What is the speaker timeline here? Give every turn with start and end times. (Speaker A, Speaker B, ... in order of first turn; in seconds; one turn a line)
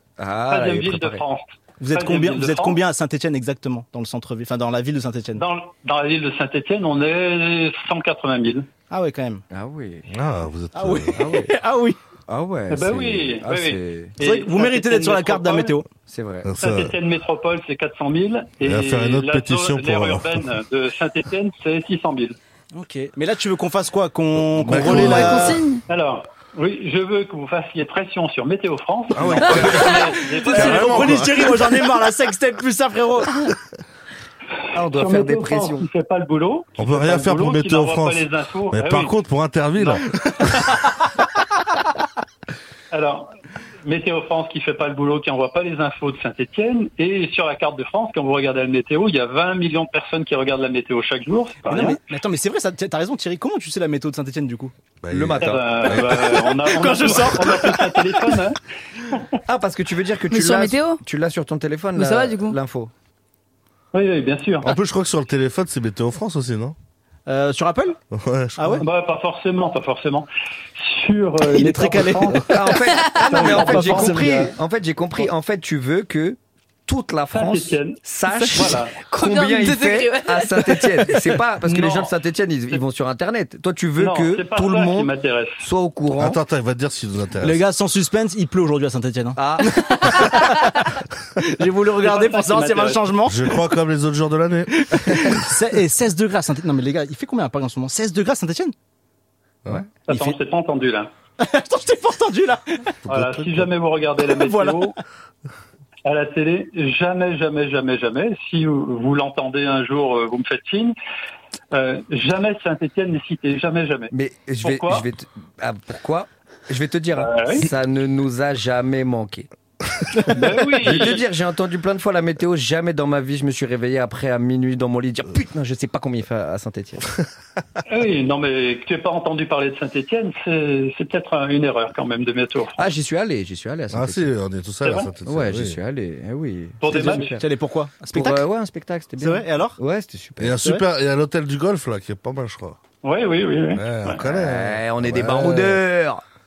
Speaker A: 0.2-1.2
Speaker B: 0.5-2.8
Speaker C: 1.8-5.4
Speaker B: 5.3-8.7
Speaker C: 8.9-9.4
Speaker A: 9.5-10.1
Speaker D: 10.1-11.2
Speaker C: 10.7-12.0
Speaker A: 11.1-11.5
Speaker A: 12.3-14.1
Speaker B: 12.7-15.8
Speaker C: 14.2-15.8
Speaker A: 16.1-16.5
Speaker D: 16.4-16.9
Speaker B: 16.6-22.4
Speaker D: 18.6-20.5
Speaker C: 22.7-25.6
Speaker D: 24.4-25.6
Speaker E: 24.8-25.8
Speaker B: 25.9-31.3
Speaker D: 29.1-31.5
Speaker E: 29.6-30.1
Speaker C: 30.4-33.5
Speaker A: 34.7-35.9
Speaker B: 34.9-39.1
Speaker D: 36.8-40.0
Speaker B: 39.8-40.0
Speaker B: 42.9-43.3
Speaker B: 43.8-52.0
Speaker C: 51.6-54.7
Speaker D: 55.0-56.4
Speaker A: 55.1-56.0
Speaker B: 55.4-58.6
Speaker C: 56.0-58.4
Speaker A: 59.5-62.9
Speaker E: 60.3-61.0
Speaker E: 61.9-62.5
Speaker B: 63.9-64.7
Speaker D: 64.6-66.7
Speaker C: 67.3-68.0
Speaker D: 68.1-68.8
Speaker C: 68.6-68.8
Speaker B: 68.8-72.6
Speaker C: 71.4-72.6
Speaker A: 72.5-86.4
Speaker E: 72.8-73.4
Speaker C: 73.3-74.5
Speaker B: 73.3-74.5
Speaker B: 77.3-79.0
Speaker E: 78.4-81.2
Speaker B: 81.6-82.1
Speaker B: 84.0-85.7
Speaker D: 86.2-87.6
Speaker C: 87.4-93.4
Speaker A: 89.3-90.3
Speaker B: 92.0-93.2
Speaker D: 93.2-95.3
Speaker C: 94.8-98.7
Speaker B: 100.0-101.1
Speaker C: 100.1-100.4
Speaker C: 101.4-102.9
Speaker D: 103.1-103.7
Speaker B: 103.1-105.0
Speaker C: 104.2-104.9
Speaker B: 106.0-110.9
Speaker B: 111.7-115.1
Speaker A: 114.1-119.5
Speaker B: 117.2-117.7
Speaker B: 120.3-121.2
Speaker A: 120.8-127.1
Speaker B: 127.9-132.8
Speaker A: 132.8-134.3
Speaker D: 133.9-135.8
Speaker B: 134.8-135.1
Speaker A: 135.2-137.4
Speaker B: 136.8-137.4
Speaker C: 136.8-138.4
Speaker A: 138.1-140.6
Speaker C: 139.2-139.8
Speaker D: 140.4-142.8
Speaker B: 143.0-144.2
Speaker D: 143.7-145.8
Speaker A: 144.2-146.2